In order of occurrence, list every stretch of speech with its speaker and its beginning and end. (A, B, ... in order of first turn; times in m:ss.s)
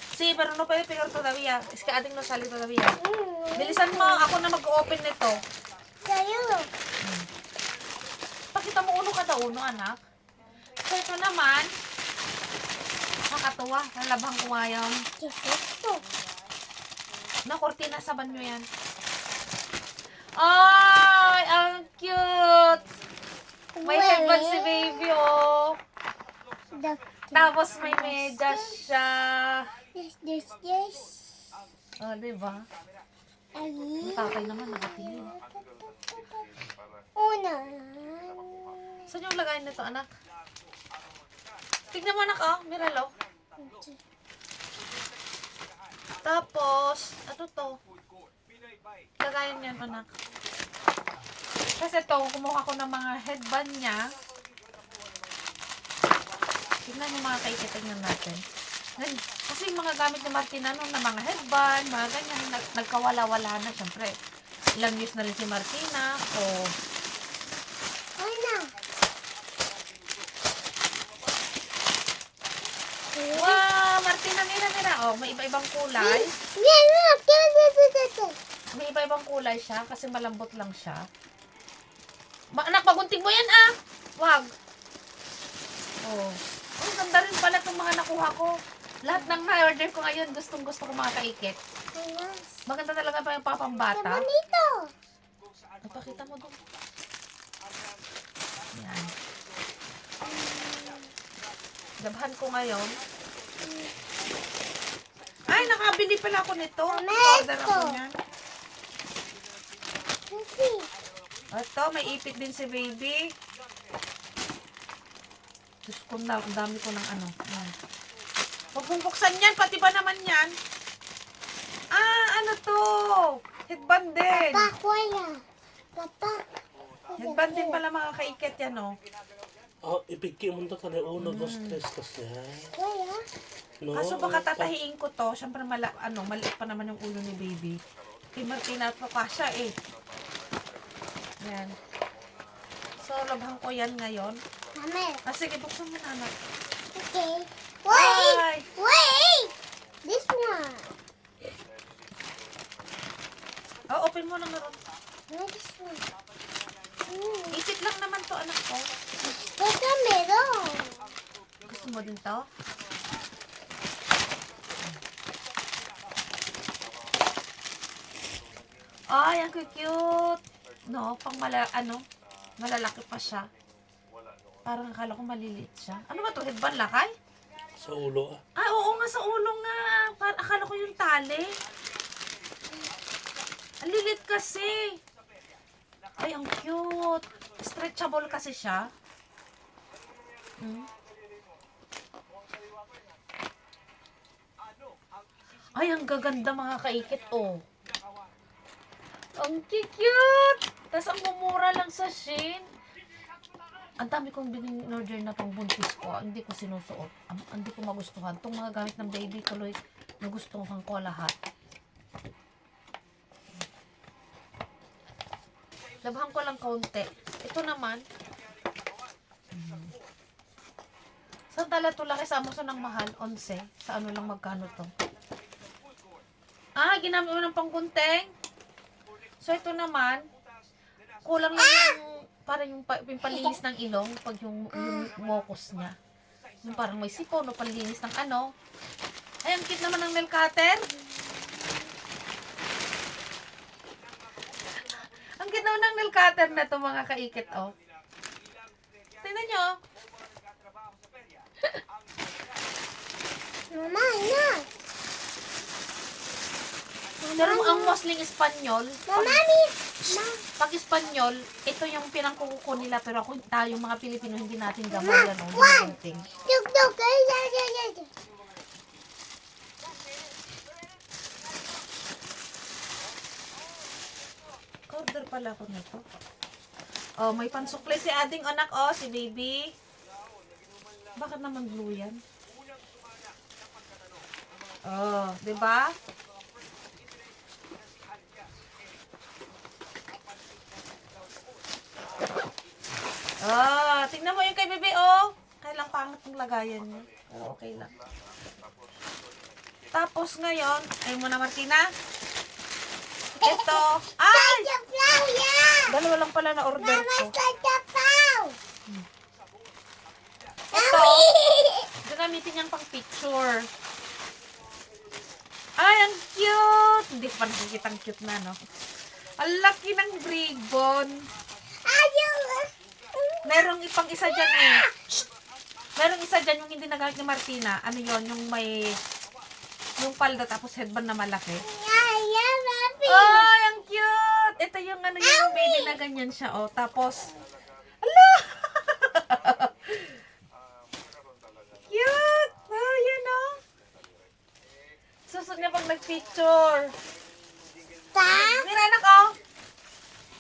0:00.1-0:03.0 A
0:03.0-0:04.3 B
0:03.6-0:05.4 A
0:06.0-0:06.7 B
0:07.0-0:07.3 A
0:08.5-0:10.0 A
0:10.8-0:11.7 A
0:13.3-0:15.0 A
0:15.2-0:16.0 B
0:17.5-0:18.7 A
0:20.4-0:22.9 A
0:23.8-0:25.1 B
0:23.8-0:25.8 A
0:26.7-0:28.8 B
0:27.3-0:29.7 A
0:30.0-0:31.2 B
0:32.0-0:32.6 A
0:33.6-0:36.4 B
0:34.0-0:35.3 A
0:37.2-0:38.8 B
0:39.1-0:40.1 A
0:41.9-0:43.1 A
0:43.6-0:44.0 B
0:46.2-0:47.8 A
0:49.2-0:50.1 A
0:51.8-0:54.0 A
0:56.8-0:58.4 A
0:59.0-1:04.2 A
1:04.8-1:06.7 A
1:08.2-1:08.7 B
1:13.1-1:13.6 B
1:13.3-1:16.3 A
1:16.0-1:18.4 B
1:18.8-1:21.0 A
1:22.5-1:24.5 A
1:26.0-1:28.5 A
1:29.1-1:31.6 A
1:29.1-1:29.4 B
1:31.9-1:32.5 B
1:32.7-1:34.2 A
1:33.9-1:34.9 B
1:35.8-1:36.6 A
1:38.8-1:39.1 A
1:40.2-1:41.1 B
1:42.0-1:43.0 A
1:43.6-1:43.9 B
1:45.5-1:48.1 A
1:46.9-1:48.0 B
1:50.3-1:50.9 B
1:51.5-1:53.2 A
1:55.9-1:57.7 A
1:58.7-2:00.6 A
2:01.9-2:04.7 A
2:04.3-2:05.4 B
2:06.0-2:06.4 B
2:07.1-2:07.8 B
2:07.2-2:09.0 A
2:09.8-2:12.7 C
2:11.2-2:11.8 A
2:12.7-2:13.2 B
2:13.8-2:14.7 C
2:13.9-2:17.8 A
2:18.4-2:19.8 A
2:21.4-2:21.7 A
2:23.0-2:24.4 A
2:24.8-2:25.2 B
2:25.3-2:26.3 A
2:26.9-2:29.5 B
2:27.9-2:28.7 A
2:30.1-2:30.8 B
2:33.9-2:34.8 A
2:35.3-2:36.0 B
2:37.1-2:37.6 B
2:37.5-2:38.8 A
2:39.2-2:41.0 B
2:41.7-2:42.5 A
2:49.1-2:52.0 A
2:52.6-2:53.5 A
2:54.7-2:57.1 A
2:57.8-2:58.4 C
2:58.6-3:01.5 A
3:03.8-3:05.0 A
3:06.2-3:08.9 A
3:10.6-3:10.9 A
3:15.8-3:17.6 A
3:19.4-3:22.7 A
3:24.0-3:31.4 A
3:36.0-3:38.0 A
3:39.5-3:39.9 A
3:41.5-3:44.9 A
3:46.8-3:48.3 A
3:49.4-3:50.3 A
3:51.2-3:56.0 A
3:51.6-3:52.0 B
3:53.3-3:53.6 B
3:54.7-3:55.1 B
3:56.6-3:58.5 A
3:59.4-4:00.8 A
4:05.4-4:07.8 A
4:09.2-4:09.8 A
4:13.7-4:14.7 B
4:17.2-4:18.0 B
4:17.4-4:19.4 A
4:19.1-4:20.4 B
4:20.1-4:26.3 A
4:24.9-4:25.9 B
4:26.4-4:28.1 B
4:34.9-4:36.0 A
4:37.2-4:39.7 A
4:41.2-4:42.2 A
4:44.9-4:45.9 A
4:53.4-4:57.9 A
4:59.9-5:01.9 A
5:03.4-5:04.7 A
5:03.4-5:05.9 B
5:05.9-5:07.3 A
5:06.8-5:08.6 B
5:10.7-5:11.3 A
5:10.7-5:11.9 B
5:12.0-5:13.7 A
5:15.8-5:18.6 A
5:19.4-5:21.2 A
5:21.8-5:23.4 B
5:23.5-5:25.2 A
5:24.3-5:24.9 B
5:26.0-5:29.0 A
5:30.0-5:31.6 A
5:31.6-5:33.5 B
5:33.1-5:37.3 A
5:35.2-5:36.0 B
5:38.0-5:40.2 A
5:41.9-5:43.6 A
5:45.3-5:46.9 A
5:48.1-5:48.7 B
5:48.3-5:49.3 A